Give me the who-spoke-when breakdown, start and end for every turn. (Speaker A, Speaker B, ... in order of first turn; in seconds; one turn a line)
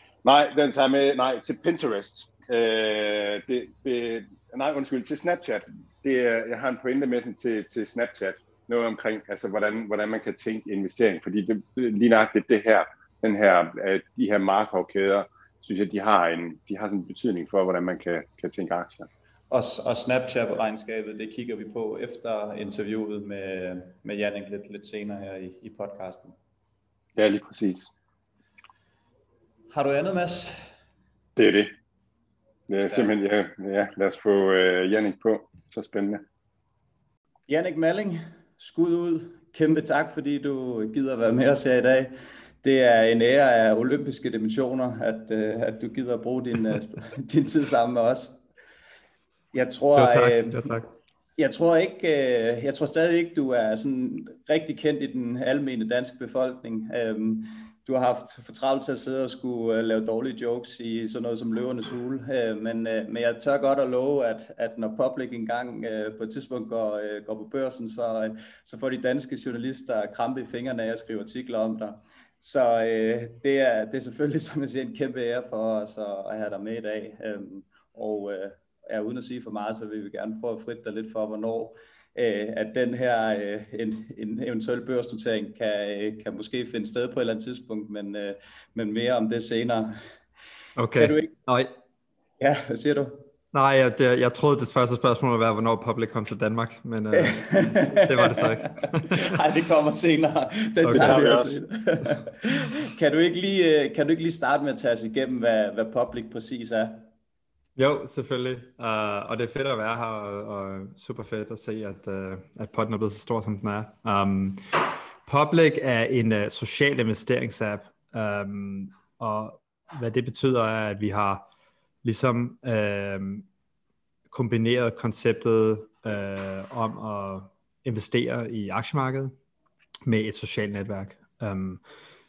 Speaker A: 0.2-19.1
Speaker B: 19.5-26.4
Speaker A: 27.2-27.9
Speaker B: 29.7-30.7
Speaker A: 31.4-31.7
Speaker A: 32.7-36.2
Speaker B: 32.8-33.1
Speaker B: 37.5-48.4
Speaker B: 49.5-50.7
Speaker C: 50.0-50.9
Speaker B: 51.4-90.0
Speaker C: 90.8-91.7
Speaker B: 91.0-91.3
Speaker B: 92.4-93.3
Speaker C: 93.5-99.4
Speaker B: 97.1-98.5
Speaker B: 99.0-107.1
Speaker C: 100.8-101.2
Speaker A: 100.9-101.6
Speaker C: 107.8-121.5
Speaker C: 122.0-123.5
Speaker C: 124.3-129.3
Speaker C: 130.1-131.8